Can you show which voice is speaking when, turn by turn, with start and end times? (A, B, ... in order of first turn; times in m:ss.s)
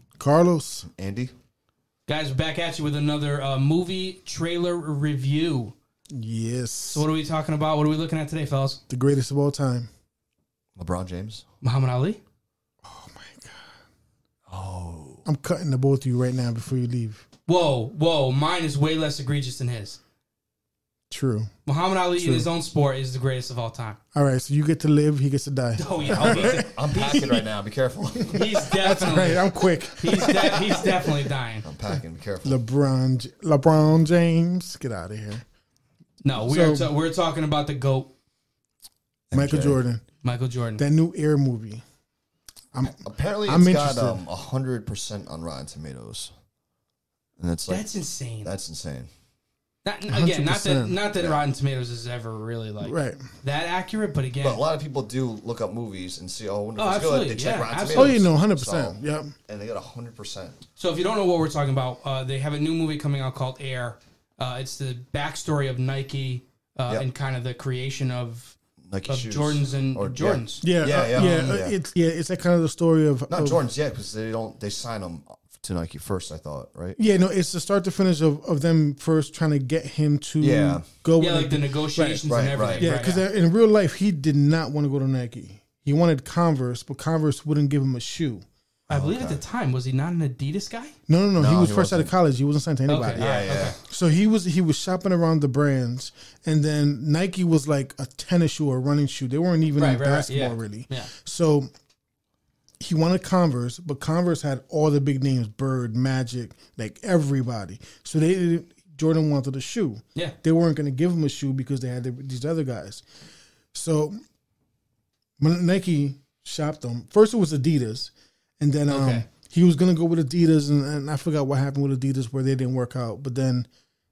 0:00.2-0:00.9 A
0:00.9-0:01.3 B
0:02.0-0:05.7 C
0:06.1-0:07.1 A
0:06.9-0:08.8 C
0:08.9-0:09.9 A
0:10.8-0:11.4 B
0:11.6-0:12.2 C
0:12.8-0:13.7 A
0:14.5-0:15.2 B
0:15.2-0:17.2 A
0:17.5-0:20.0 C
0:21.1-0:21.5 A
0:21.6-0:24.0 C
0:22.2-0:22.5 A
0:24.1-0:27.4 A
0:25.8-0:27.3 C
0:26.1-0:28.7 B
0:28.2-0:31.0 A
0:28.3-0:31.6 C
0:31.6-0:32.6 B
0:32.4-0:35.4 A
0:36.2-0:38.1 C
0:36.4-0:36.9 A
0:39.3-0:39.8 B
0:39.3-0:40.0 A
0:40.2-0:40.8 C
0:40.8-0:41.8 A
0:42.7-0:44.2 A
0:42.9-0:46.3 B
0:47.4-0:47.9 B
0:47.7-0:48.5 C
0:48.4-0:49.1 B
0:49.8-0:54.6 C
0:50.1-0:51.0 A
0:51.2-0:51.4 B
0:52.8-0:53.2 A
0:54.4-1:00.6 B
0:56.8-0:58.2 C
0:57.9-0:59.3 A
1:00.8-1:08.6 C
1:08.8-1:11.8 B
1:09.1-1:11.5 C
1:10.6-1:13.6 A
1:13.3-1:17.0 B
1:17.0-1:28.4 A
1:20.4-1:20.9 B
1:21.2-1:23.2 C
1:22.3-1:22.9 B
1:28.9-1:30.9 C
1:28.9-1:29.4 B
1:31.1-1:41.7 A
1:31.4-1:32.1 B
1:32.9-1:33.8 C
1:33.1-1:33.8 B
1:39.8-1:41.1 C
1:42.8-1:53.0 A
1:53.7-1:54.2 A
1:55.4-2:03.7 A
1:58.9-1:59.3 C